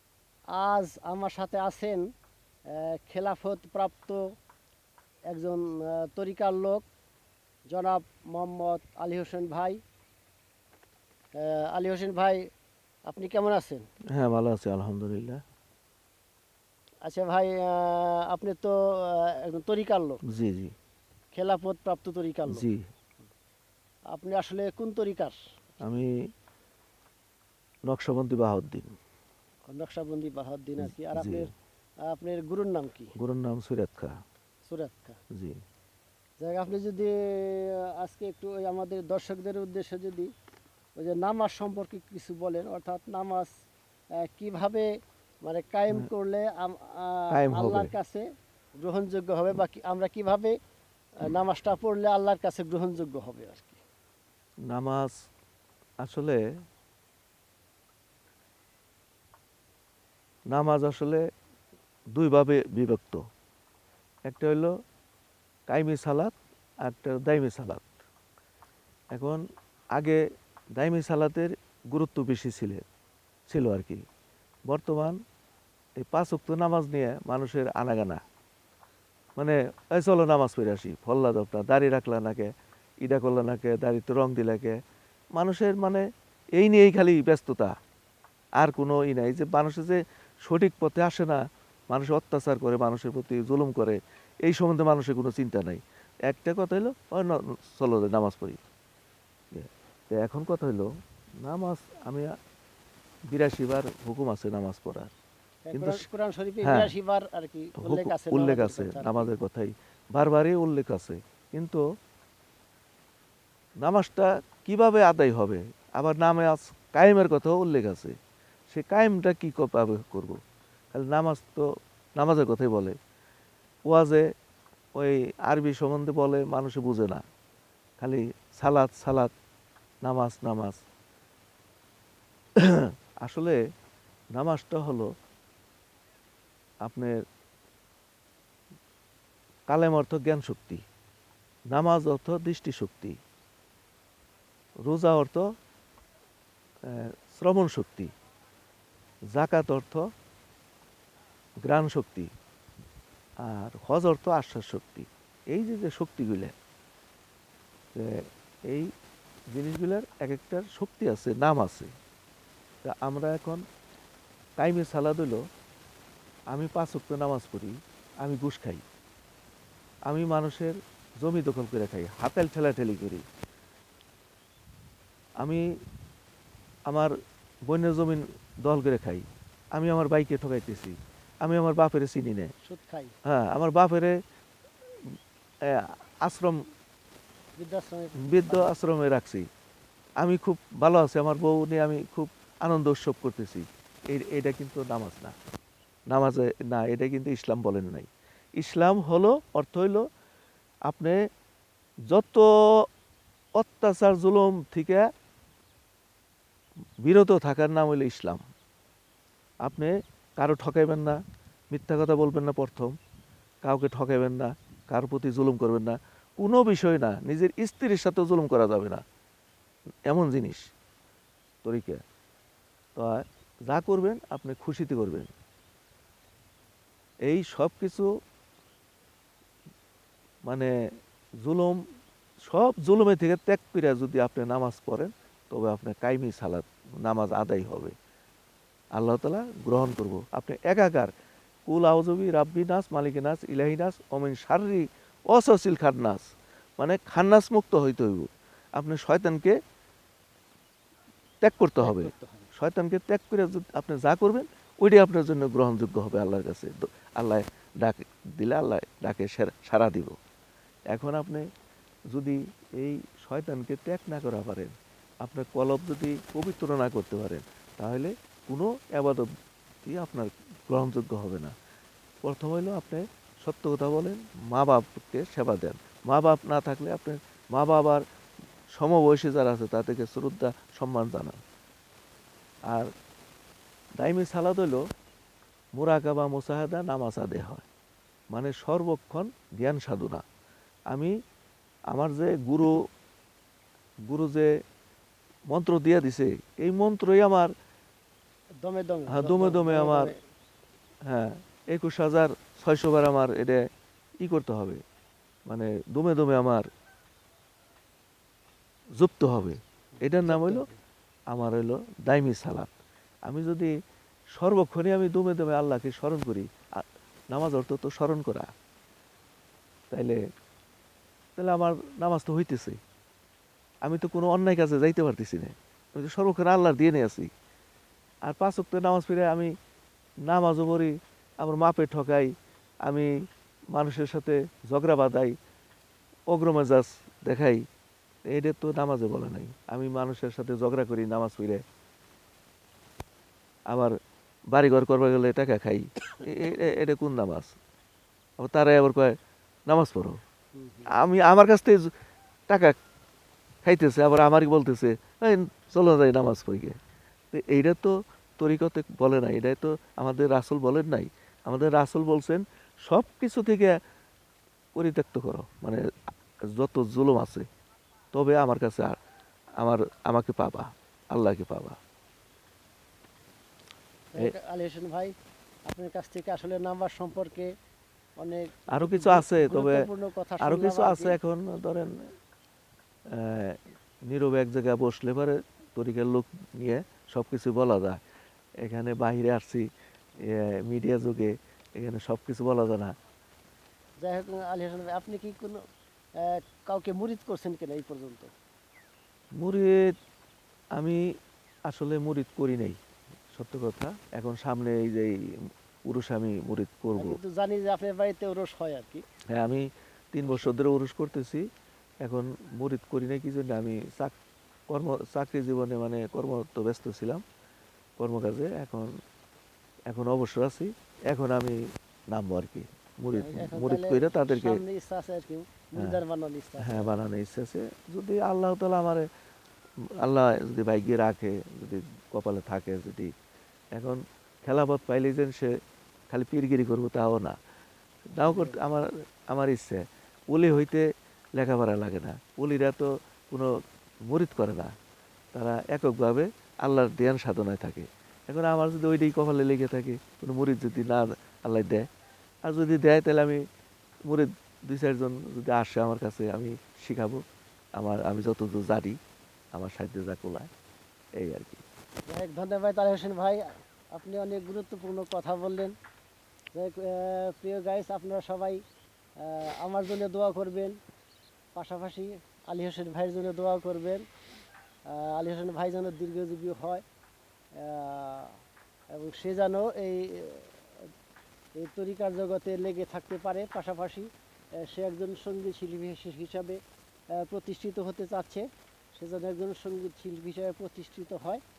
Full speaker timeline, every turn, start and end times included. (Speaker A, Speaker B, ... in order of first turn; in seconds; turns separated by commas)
Speaker A: 0.5-2.1, Speaker A: 2.7-4.2, Speaker A: 5.3-6.9, Speaker A: 7.7-9.8, Speaker A: 11.3-12.4, Speaker A: 13.1-13.8, Speaker B: 14.1-15.4, Speaker A: 17.0-20.2, Speaker B: 20.3-20.7, Speaker A: 21.3-22.6, Speaker B: 22.5-22.9, Speaker A: 24.1-25.4, Speaker B: 25.8-26.1, Speaker B: 27.9-29.0, Speaker A: 29.7-31.5, Speaker B: 30.8-31.5, Speaker A: 32.1-33.1, Speaker B: 33.2-34.1, Speaker A: 34.6-35.2, Speaker B: 35.3-35.6, Speaker A: 36.4-40.3, Speaker A: 41.0-43.5, Speaker A: 44.2-44.9, Speaker A: 45.4-48.2, Speaker B: 47.3-47.9, Speaker A: 48.8-50.5, Speaker A: 51.2-53.8, Speaker B: 54.7-55.1, Speaker B: 56.0-56.4, Speaker B: 60.5-61.2, Speaker B: 62.1-63.2, Speaker B: 64.3-64.7, Speaker B: 65.7-68.0, Speaker B: 69.1-69.4, Speaker B: 70.0-70.2, Speaker B: 70.8-72.9, Speaker B: 73.5-74.0, Speaker B: 74.7-75.2, Speaker B: 76.0-78.2, Speaker B: 79.4-82.5, Speaker B: 83.0-84.8, Speaker B: 85.3-87.7, Speaker B: 88.6-98.6, Speaker B: 99.5-100.9, Speaker B: 101.4-102.3, Speaker B: 103.3-105.1, Speaker A: 105.7-109.3, Speaker B: 105.7-106.0, Speaker B: 106.6-106.9, Speaker B: 107.8-111.8, Speaker B: 113.8-118.2, Speaker B: 118.7-120.4, Speaker B: 120.9-121.7, Speaker B: 122.2-123.0, Speaker B: 123.9-124.3, Speaker B: 125.0-127.2, Speaker B: 128.0-129.3, Speaker B: 130.0-130.8, Speaker B: 132.6-133.6, Speaker B: 134.3-135.1, Speaker B: 136.8-137.2, Speaker B: 139.7-140.8, Speaker B: 141.7-143.2, Speaker B: 144.8-145.4, Speaker B: 146.8-148.1, Speaker B: 149.3-150.0, Speaker B: 151.6-152.3, Speaker B: 153.4-156.6, Speaker B: 157.9-158.9, Speaker B: 159.5-161.9, Speaker B: 162.8-163.6, Speaker B: 164.6-165.4, Speaker B: 166.5-168.8, Speaker B: 170.1-173.2, Speaker B: 177.7-182.5, Speaker A: 182.6-183.1, Speaker B: 183.2-184.2, Speaker B: 185.7-186.6, Speaker A: 187.6-188.7, Speaker B: 188.3-189.5, Speaker B: 190.2-195.3, Speaker B: 196.1-200.0, Speaker B: 200.9-201.2, Speaker B: 202.1-202.5, Speaker B: 203.6-205.1, Speaker B: 207.0-208.4, Speaker B: 209.6-211.2, Speaker B: 211.7-212.9, Speaker B: 213.6-219.0, Speaker B: 220.1-220.7, Speaker B: 221.6-222.0, Speaker B: 223.0-225.3, Speaker B: 227.2-228.1, Speaker B: 230.5-230.7, Speaker B: 231.4-231.8, Speaker B: 232.5-237.9, Speaker B: 238.9-241.1, Speaker B: 241.7-246.3, Speaker B: 246.8-249.6, Speaker B: 251.4-260.1, Speaker A: 251.8-252.5, Speaker B: 260.9-261.5, Speaker B: 262.1-269.3, Speaker B: 269.9-271.5, Speaker B: 272.2-278.0, Speaker B: 278.8-281.4, Speaker B: 284.0-284.8, Speaker B: 285.8-287.7, Speaker B: 288.3-290.2, Speaker B: 291.9-292.8, Speaker B: 294.1-294.5, Speaker B: 295.5-297.5, Speaker A: 298.6-300.2, Speaker B: 299.1-300.1, Speaker B: 301.1-303.6, Speaker B: 304.2-304.8, Speaker B: 305.5-306.7, Speaker B: 309.0-310.6, Speaker A: 310.0-310.8, Speaker B: 311.3-312.7, Speaker B: 313.3-313.7, Speaker B: 314.4-318.5, Speaker B: 319.9-320.2, Speaker B: 321.4-322.8, Speaker B: 323.8-327.3, Speaker B: 328.3-329.5, Speaker B: 330.3-332.3, Speaker B: 332.8-333.1, Speaker B: 333.7-335.4, Speaker B: 336.3-337.6, Speaker B: 338.3-341.6, Speaker B: 343.7-344.0, Speaker B: 344.5-347.6, Speaker B: 348.4-349.2, Speaker B: 349.7-350.2, Speaker A: 350.6-350.9, Speaker B: 350.9-351.9, Speaker B: 352.5-352.8, Speaker B: 353.6-356.8, Speaker B: 357.3-363.8, Speaker B: 364.8-365.8, Speaker B: 366.5-367.5, Speaker B: 368.1-369.0, Speaker B: 369.6-371.8, Speaker A: 374.1-375.1, Speaker A: 375.7-377.5, Speaker A: 378.2-381.2, Speaker B: 378.7-379.9, Speaker B: 380.4-382.1, Speaker B: 383.1-388.0, Speaker B: 388.6-389.7, Speaker B: 390.2-392.9, Speaker A: 394.0-395.6, Speaker A: 396.2-398.3, Speaker B: 399.4-399.9, Speaker B: 400.7-401.0, Speaker B: 401.7-402.8, Speaker B: 403.3-407.2, Speaker A: 406.9-409.0, Speaker B: 409.3-411.4, Speaker A: 410.3-410.6, Speaker B: 412.0-414.1, Speaker B: 414.7-417.2, Speaker B: 418.0-418.9, Speaker B: 419.9-424.6, Speaker A: 423.1-427.0, Speaker B: 426.6-429.1, Speaker B: 430.0-433.1, Speaker B: 433.7-435.6, Speaker B: 436.1-437.4, Speaker B: 438.1-443.5, Speaker A: 438.2-438.6, Speaker B: 444.1-444.7, Speaker B: 445.3-451.9, Speaker B: 452.4-453.4, Speaker B: 454.1-457.2, Speaker B: 457.8-459.0, Speaker B: 459.5-460.5, Speaker B: 461.2-461.6, Speaker A: 462.1-465.8, Speaker A: 466.5-468.6, Speaker A: 469.2-470.8, Speaker A: 471.6-474.1, Speaker A: 474.9-476.8, Speaker A: 477.6-478.4, Speaker A: 478.9-480.5, Speaker A: 481.6-484.1, Speaker A: 484.6-486.6, Speaker A: 487.1-491.4